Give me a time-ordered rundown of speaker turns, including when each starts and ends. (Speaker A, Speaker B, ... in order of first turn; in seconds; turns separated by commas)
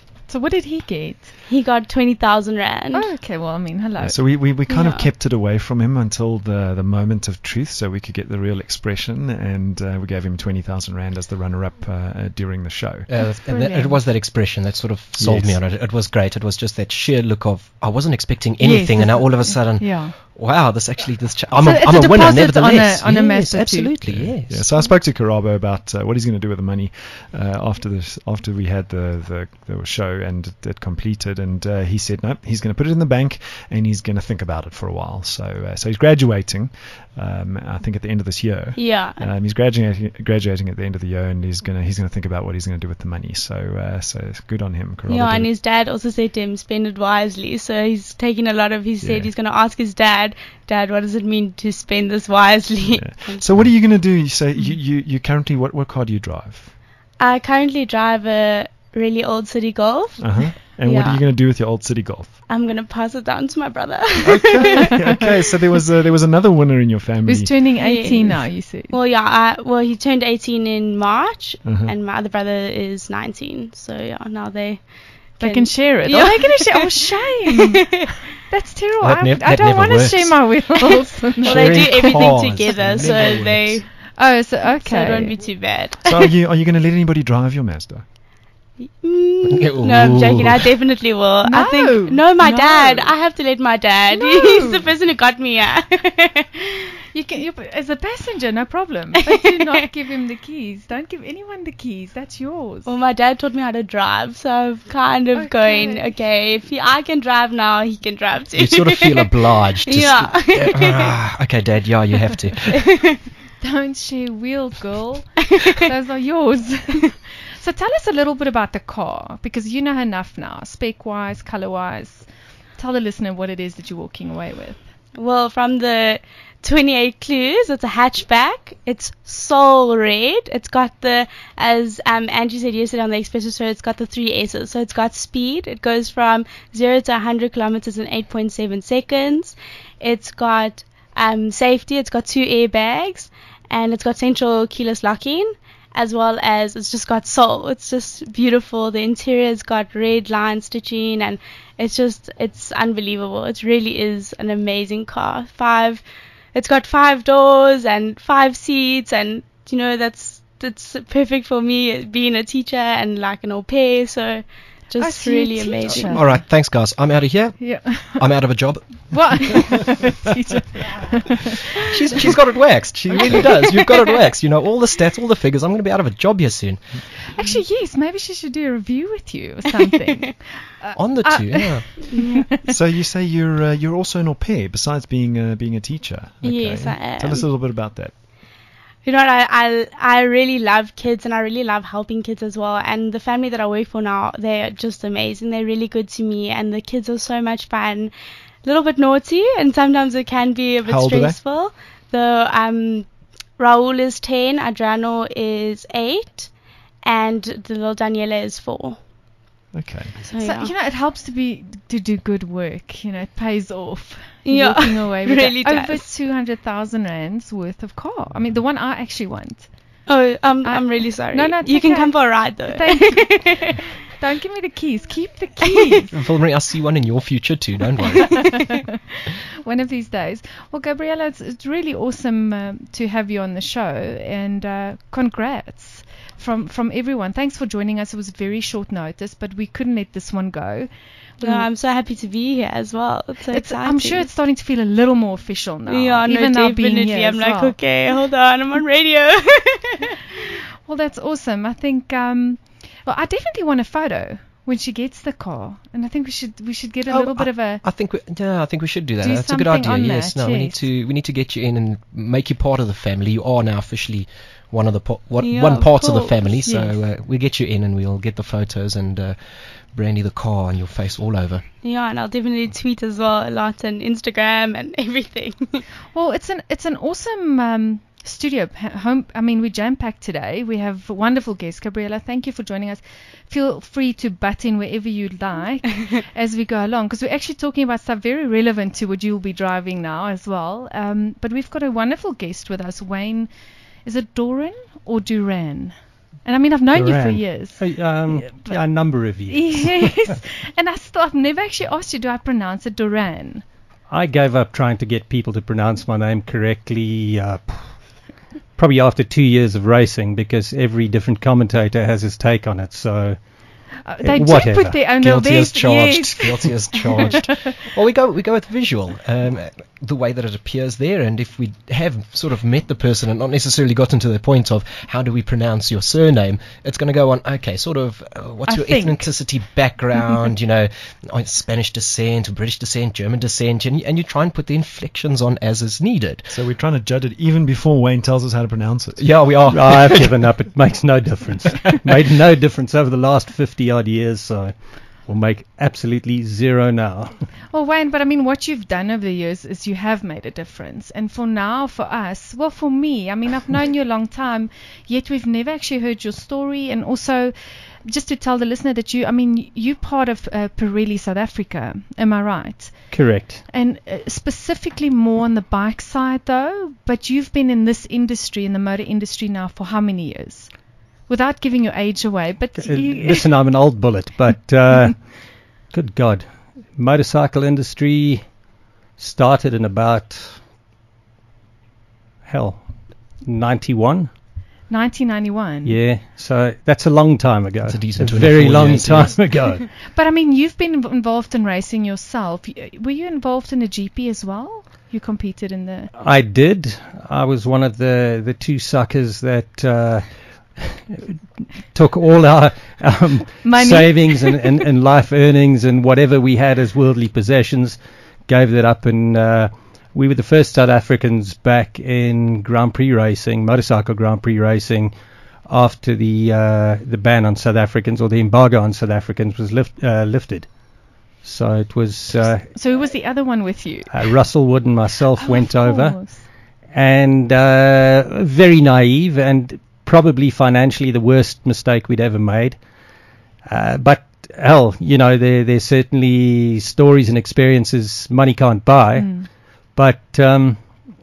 Speaker A: 0.3-1.3, Speaker B: 1.5-3.1, Speaker A: 2.9-4.2, Speaker C: 4.0-13.1, Speaker B: 4.7-5.1, Speaker D: 13.1-24.6, Speaker A: 13.2-14.0, Speaker C: 15.2-15.6, Speaker A: 18.6-20.1, Speaker A: 21.6-23.9, Speaker C: 24.1-45.5, Speaker B: 38.8-39.3, Speaker B: 45.1-53.4, Speaker C: 49.0-49.3, Speaker C: 52.8-56.7, Speaker B: 57.2-61.2, Speaker C: 60.2-62.4, Speaker B: 62.5-65.0, Speaker C: 64.2-67.8, Speaker A: 67.2-68.9, Speaker B: 67.8-77.8, Speaker C: 71.6-71.9, Speaker A: 75.4-82.2, Speaker D: 79.0-80.7, Speaker D: 81.4-83.8, Speaker B: 81.4-83.9, Speaker A: 84.2-85.3, Speaker B: 84.8-86.1, Speaker C: 86.0-88.1, Speaker B: 89.0-96.5, Speaker D: 89.5-90.7, Speaker A: 91.5-93.1, Speaker A: 94.1-94.9, Speaker A: 97.1-102.9, Speaker B: 99.3-99.7, Speaker B: 102.9-109.3, Speaker A: 105.3-106.1, Speaker D: 108.5-112.8, Speaker B: 109.9-111.1, Speaker A: 113.6-122.2, Speaker A: 122.8-124.8, Speaker B: 125.2-156.0, Speaker B: 156.5-166.2, Speaker A: 165.0-166.4, Speaker D: 165.9-169.7, Speaker A: 167.6-168.3, Speaker A: 169.1-171.4, Speaker D: 171.9-177.0, Speaker A: 173.1-174.1, Speaker A: 177.4-182.7, Speaker D: 181.0-182.2, Speaker B: 182.2-182.4, Speaker C: 182.7-188.1, Speaker B: 186.4-187.5, Speaker B: 189.0-198.1, Speaker B: 198.6-209.0, Speaker C: 200.9-201.4, Speaker C: 209.7-210.2, Speaker B: 210.2-210.7, Speaker A: 210.4-219.7, Speaker B: 214.5-216.0, Speaker B: 220.1-223.4, Speaker A: 220.6-226.1, Speaker D: 226.1-228.6, Speaker A: 229.6-241.7, Speaker B: 241.4-244.3, Speaker A: 243.5-247.8, Speaker B: 245.9-250.2, Speaker A: 250.9-257.8, Speaker D: 257.1-269.4, Speaker A: 259.2-260.9, Speaker B: 265.4-267.0, Speaker D: 269.9-271.6, Speaker B: 271.8-275.8, Speaker A: 276.1-293.5, Speaker A: 294.0-298.8, Speaker E: 296.9-300.4, Speaker A: 299.5-303.6, Speaker E: 304.1-308.0, Speaker E: 308.8-313.4, Speaker A: 314.0-317.8, Speaker E: 314.2-315.1, Speaker D: 315.2-336.6, Speaker A: 328.7-329.3, Speaker C: 336.5-339.2, Speaker D: 339.2-340.5, Speaker E: 339.7-347.3, Speaker A: 347.7-357.5, Speaker A: 358.0-363.1, Speaker E: 363.1-363.6, Speaker A: 363.7-370.7, Speaker A: 371.3-373.5, Speaker E: 372.8-378.5, Speaker E: 379.2-380.6, Speaker E: 382.4-382.9, Speaker E: 383.4-384.3, Speaker A: 384.9-386.0, Speaker E: 385.9-389.9, Speaker D: 387.9-389.5, Speaker A: 390.1-396.1, Speaker E: 396.2-400.2, Speaker E: 400.8-401.4, Speaker E: 401.9-415.1, Speaker A: 403.6-404.7, Speaker E: 415.7-420.7, Speaker E: 421.4-422.7, Speaker A: 422.7-424.3, Speaker E: 424.1-426.2, Speaker A: 425.4-426.4, Speaker E: 426.9-432.8, Speaker E: 433.7-440.8, Speaker A: 439.1-439.5